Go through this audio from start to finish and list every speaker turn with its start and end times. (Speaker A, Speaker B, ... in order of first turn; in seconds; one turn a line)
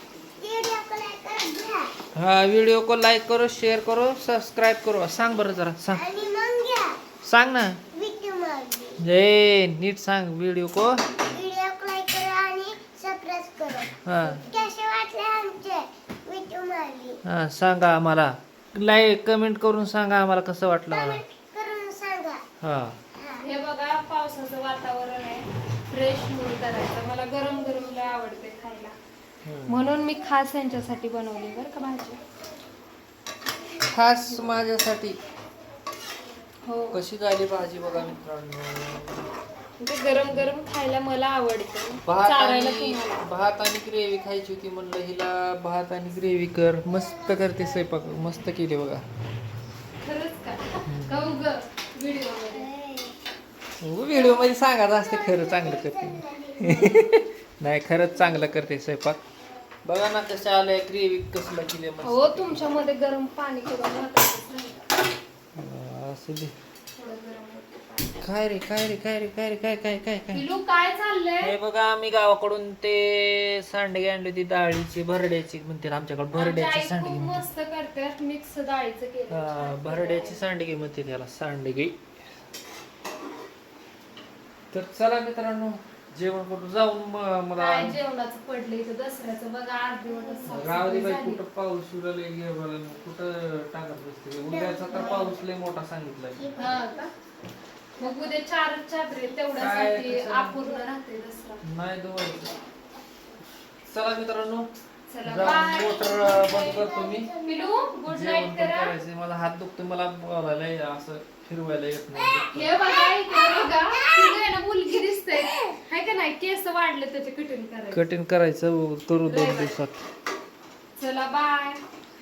Speaker A: 0.4-1.9
Speaker B: 2.1-6.0
Speaker A: 5.9-7.0
Speaker B: 7.2-7.8
Speaker A: 7.9-9.0
Speaker B: 9.0-11.0
Speaker A: 11.3-17.2
Speaker B: 14.0-14.4
Speaker B: 17.2-21.2
Speaker A: 20.9-22.4
Speaker B: 22.6-23.0
Speaker A: 23.1-23.5
Speaker C: 23.4-29.0
Speaker B: 29.4-29.9
Speaker C: 29.7-32.2
Speaker B: 33.9-35.2
Speaker C: 34.3-34.6
Speaker C: 36.7-37.0
Speaker B: 36.9-39.3
Speaker C: 39.8-43.3
Speaker B: 42.0-49.0
Speaker A: 47.2-47.6
Speaker C: 50.0-52.7
Speaker B: 50.9-51.3
Speaker A: 52.5-53.2
Speaker B: 53.8-59.2
Speaker A: 54.1-57.1
Speaker C: 56.6-57.1
Speaker B: 59.9-62.8
Speaker C: 62.0-64.9
Speaker B: 65.6-66.5
Speaker C: 67.0-68.2
Speaker B: 68.2-70.5
Speaker C: 70.3-71.5
Speaker B: 71.4-77.5
Speaker C: 76.3-80.4
Speaker B: 79.3-82.0
Speaker B: 84.7-88.0
Speaker C: 87.6-91.4
Speaker B: 90.5-96.6
Speaker A: 94.5-95.4
Speaker A: 96.4-97.1
Speaker C: 96.6-97.1
Speaker C: 98.0-101.6
Speaker B: 99.5-100.6
Speaker B: 101.6-102.6
Speaker B: 103.9-104.7
Speaker C: 105.1-109.0
Speaker B: 105.2-107.3
Speaker A: 106.5-107.9
Speaker B: 108.1-112.8
Speaker C: 112.2-118.0
Speaker A: 112.8-115.8
Speaker B: 117.9-120.1
Speaker C: 119.3-119.8
Speaker C: 121.0-121.8